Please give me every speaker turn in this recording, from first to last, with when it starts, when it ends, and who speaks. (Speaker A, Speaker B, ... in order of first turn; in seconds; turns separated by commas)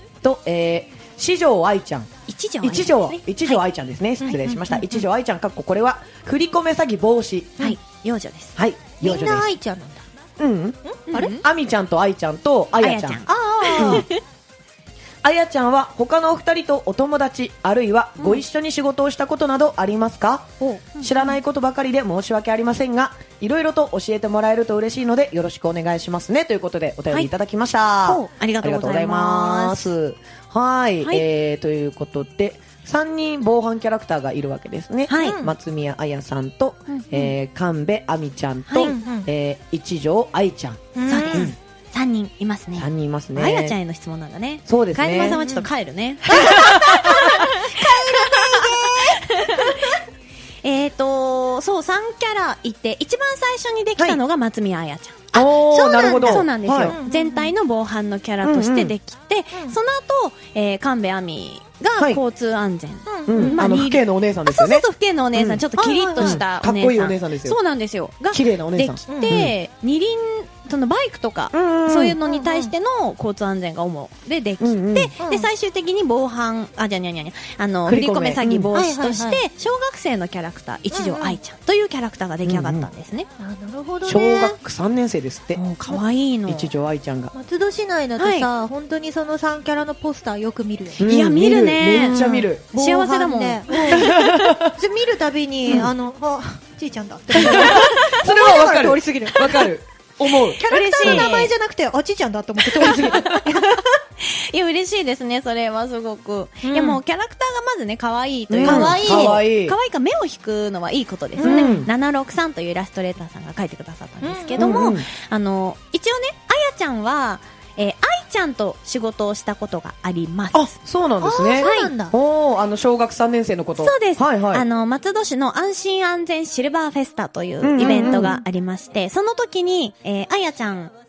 Speaker A: 0.2-2.1, Speaker B: 2.3-3.6, Speaker A: 2.6-7.7, Speaker C: 4.2-4.8, Speaker B: 7.6-8.5, Speaker A: 8.6-9.5, Speaker C: 9.0-10.0, Speaker A: 10.4-13.2, Speaker C: 10.8-11.3, Speaker B: 11.1-11.4, Speaker B: 12.8-14.2, Speaker C: 13.3-14.1, Speaker A: 13.8-14.1, Speaker A: 15.2-41.5, Speaker C: 20.6-20.8, Speaker B: 28.0-29.9, Speaker B: 35.1-35.4, Speaker C: 35.2-35.5, Speaker B: 38.7-38.9, Speaker C: 38.8-39.3, Speaker C: 40.9-41.5, Speaker B: 41.1-50.0, Speaker A: 42.8-43.8, Speaker A: 44.7-45.4, Speaker C: 45.3-45.7, Speaker C: 46.2-50.0, Speaker A: 46.5-46.9, Speaker B: 50.6-83.3, Speaker A: 55.3-57.0, Speaker C: 55.6-57.5, Speaker A: 58.4-58.9, Speaker C: 63.1-63.6, Speaker A: 63.2-65.6, Speaker C: 65.8-66.4, Speaker A: 66.2-67.6, Speaker A: 68.3-69.5, Speaker C: 69.1-69.4, Speaker A: 71.5-72.2, Speaker C: 72.2-72.7, Speaker A: 74.6-75.1, Speaker C: 75.2-75.5, Speaker A: 77.8-78.7, Speaker C: 78.7-79.4, Speaker C: 80.9-81.4, Speaker A: 82.4-82.9, Speaker C: 83.4-84.5, Speaker A: 84.0-85.7, Speaker B: 85.5-86.7, Speaker A: 86.5-87.3, Speaker C: 87.3-91.1, Speaker B: 88.2-88.5, Speaker A: 91.0-92.6, Speaker B: 91.0-94.5, Speaker C: 91.9-99.7, Speaker A: 93.9-94.7, Speaker A: 97.3-101.3, Speaker B: 97.4-98.0, Speaker C: 100.5-103.8, Speaker B: 100.7-101.5, Speaker B: 102.8-103.4, Speaker B: 104.2-120.7, Speaker C: 106.6-107.0, Speaker A: 108.5-109.8, Speaker C: 108.6-109.4, Speaker C: 111.4-111.9, Speaker A: 111.4-111.9, Speaker C: 114.2-114.9, Speaker A: 114.5-115.1, Speaker A: 120.5-124.6, Speaker C: 121.2-122.1, Speaker B: 121.6-121.9, Speaker B: 123.8-130.9, Speaker A: 127.6-128.4